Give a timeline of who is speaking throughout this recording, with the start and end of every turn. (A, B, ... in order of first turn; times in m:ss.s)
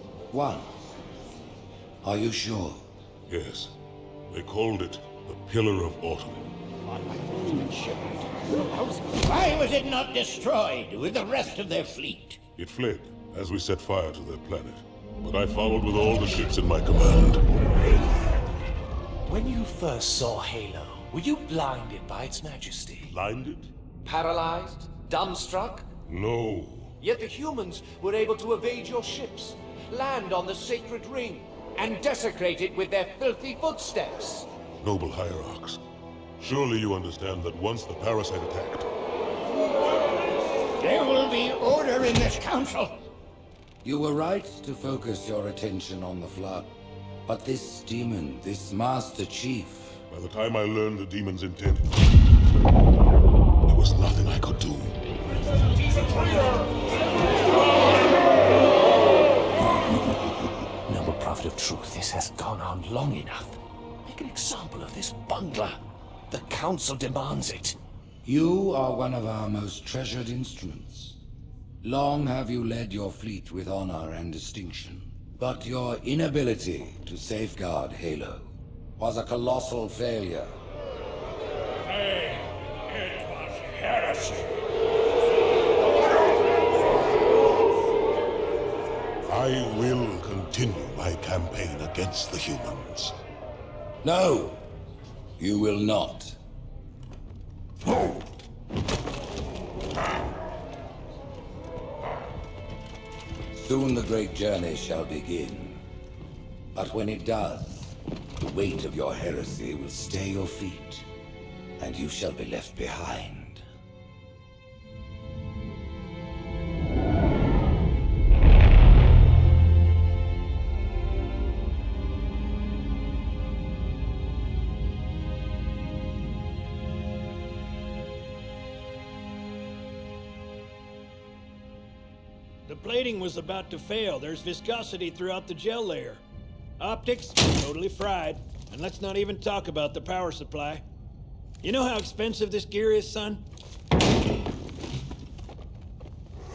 0:00.3-0:00.7 A
0:02.0-0:02.8 A
0:03.3-0:03.7 B
0:04.3-0:06.5 B
0:06.9-0:12.4 C
0:12.6-0:17.5 B
0:19.3-0:23.1 D
0:23.1-0:23.7 B
0:24.0-0:25.9 D
0:26.1-0:26.9 B
0:27.0-0:34.5 D
0:34.8-0:35.8 B
0:36.4-0:38.9 B
0:40.8-0:43.0 C
0:43.8-0:46.7 A
0:47.3-0:50.0 A
0:50.1-0:51.9 B
0:53.7-0:55.0 B
0:55.8-0:56.6 B
1:00.9-1:07.8 D
1:08.2-1:11.2 A
1:11.8-1:20.5 A
1:23.8-1:24.1 B
1:29.3-1:33.2 B
1:34.0-1:34.6 A
1:35.4-1:36.4 A
1:43.5-1:45.8 A
1:46.7-1:51.1 A
1:51.8-1:53.6 A
2:12.7-2:16.2 E
2:16.8-2:20.8 E
2:21.6-2:23.4 E